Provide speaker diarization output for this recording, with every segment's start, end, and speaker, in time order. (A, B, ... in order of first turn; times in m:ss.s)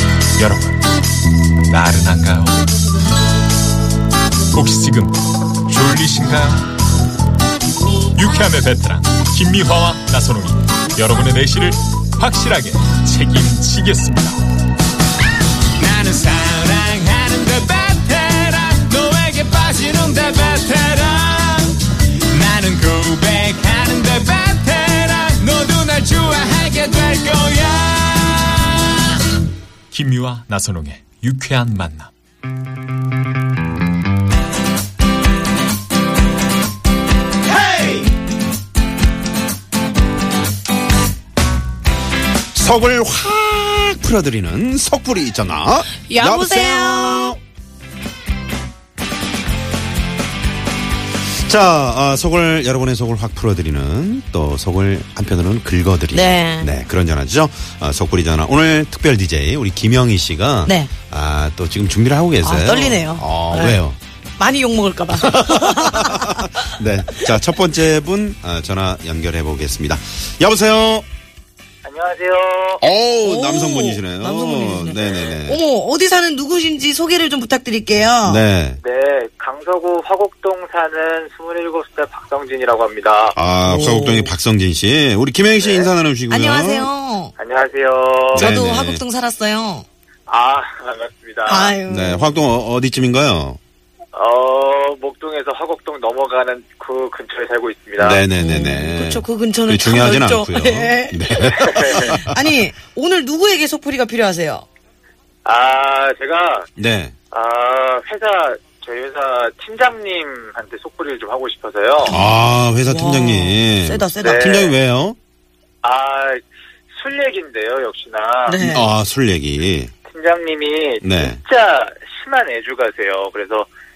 0:00.4-0:00.8 A
0:01.7-0:02.6 A
0:04.5-0:06.7 A
0:08.1-0:14.4 A
0:15.8-0:21.6 B
0:18.8-0:19.3 A
0:20.7-0:21.6 A
0:22.3-0:22.8 A
0:22.5-0:28.3 B
0:28.3-0:28.6 A
0:29.9-0:32.1 A
0:37.5-0:38.0 C
0:42.5-0:47.4 C
0:46.1-0:47.4 D
0:51.4-1:04.0 C
0:56.1-0:56.7 D
1:00.6-1:00.9 D
1:02.4-1:03.8 D
1:04.4-1:06.6 D
1:05.1-1:11.1 C
1:11.8-1:12.8 E
1:12.8-1:15.6 C
1:13.2-1:18.4 D
1:18.2-1:18.8 C
1:18.8-1:23.4 E
1:23.4-1:26.9 C
1:23.6-1:24.3 D
1:25.6-1:25.9 E
1:26.3-1:27.3 D
1:27.4-1:28.5 E
1:28.3-1:29.0 C
1:28.3-1:29.8 D
1:30.3-1:31.8 E
1:31.5-1:32.4 D
1:31.9-1:33.6 C
1:34.1-1:38.2 E
1:38.0-1:42.5 C
1:38.4-1:44.6 D
1:41.4-1:42.1 E
1:45.4-1:46.7 E
1:46.8-1:47.2 C
1:47.3-1:52.2 E
1:52.0-1:55.2 C
1:52.1-1:54.5 D
1:54.2-1:54.8 E
1:55.8-1:56.4 E
1:56.9-1:58.6 E
1:58.5-1:58.9 D
1:58.6-1:59.9 C
2:00.1-2:03.7 E
2:01.0-2:01.4 C